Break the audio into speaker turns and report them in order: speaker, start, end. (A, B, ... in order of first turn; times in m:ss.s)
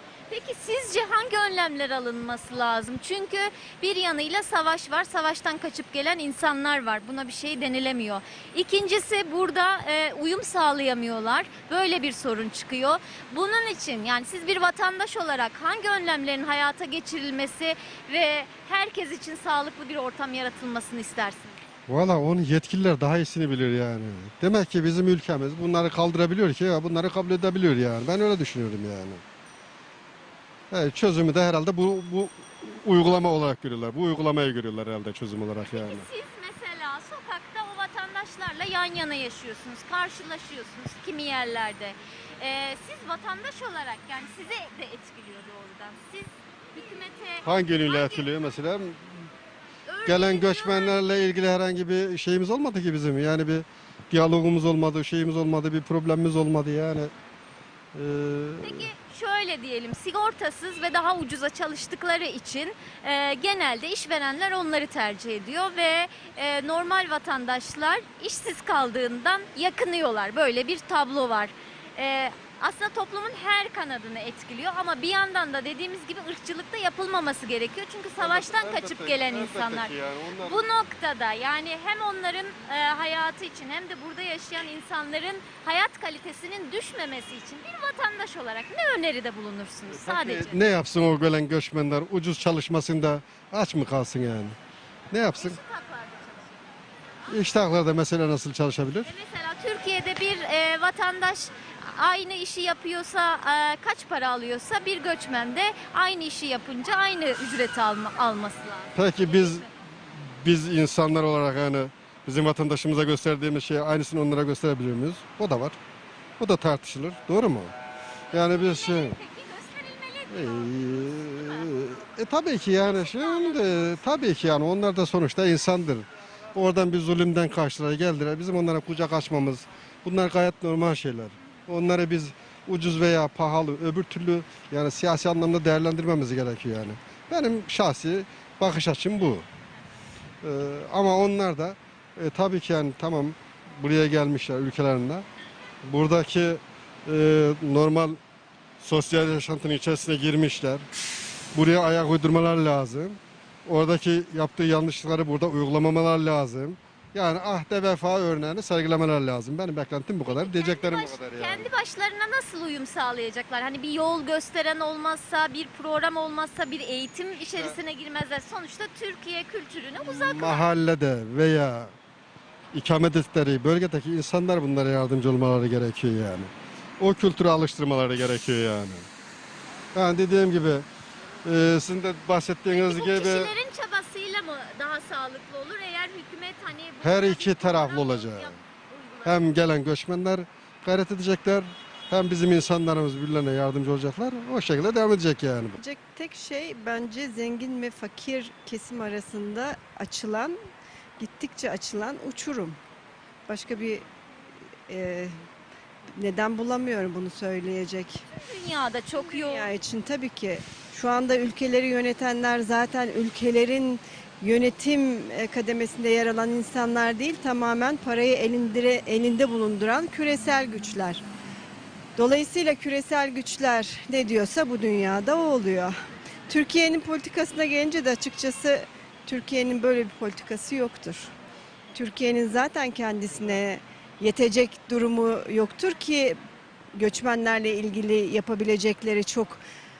0:00.3-0:21.6 A
0:21.9-0:29.2 B
0:30.7-0:36.1 B
0:35.7-0:48.2 A
0:47.4-0:49.2 B
0:49.8-0:51.0 A
0:50.0-0:57.1 B
0:57.9-0:58.9 B
0:58.6-1:30.6 A
1:18.2-1:20.6 B
1:29.9-1:34.6 B
1:35.1-1:35.6 B
1:35.3-1:36.6 A
1:37.3-1:39.1 B
1:39.0-1:49.6 A
1:49.0-1:49.6 B
1:50.4-1:55.8 B
1:56.4-1:57.7 B
1:58.3-2:00.7 A
1:58.3-1:59.2 B
2:00.3-2:19.4 B
2:01.4-2:01.6 A
2:02.9-2:04.0 A
2:20.4-2:25.2 B
2:25.8-2:28.2 B
2:28.8-2:30.8 B
2:31.5-2:41.7 B
2:40.3-2:50.6 A
2:50.0-2:51.9 B
2:52.7-2:59.1 B
2:59.9-3:00.8 B
3:01.4-3:03.5 B
3:02.7-3:09.5 A
3:07.0-3:08.6 B
3:09.2-3:15.8 B
3:15.8-3:20.6 C
3:21.2-3:22.8 C
3:23.5-3:24.0 C
3:24.9-3:25.3 C
3:26.1-3:28.2 C
3:28.3-3:29.7 A
3:29.2-3:41.2 C
3:42.2-3:45.9 C
3:46.5-3:51.3 C
3:51.9-3:56.4 C
3:56.9-3:59.6 C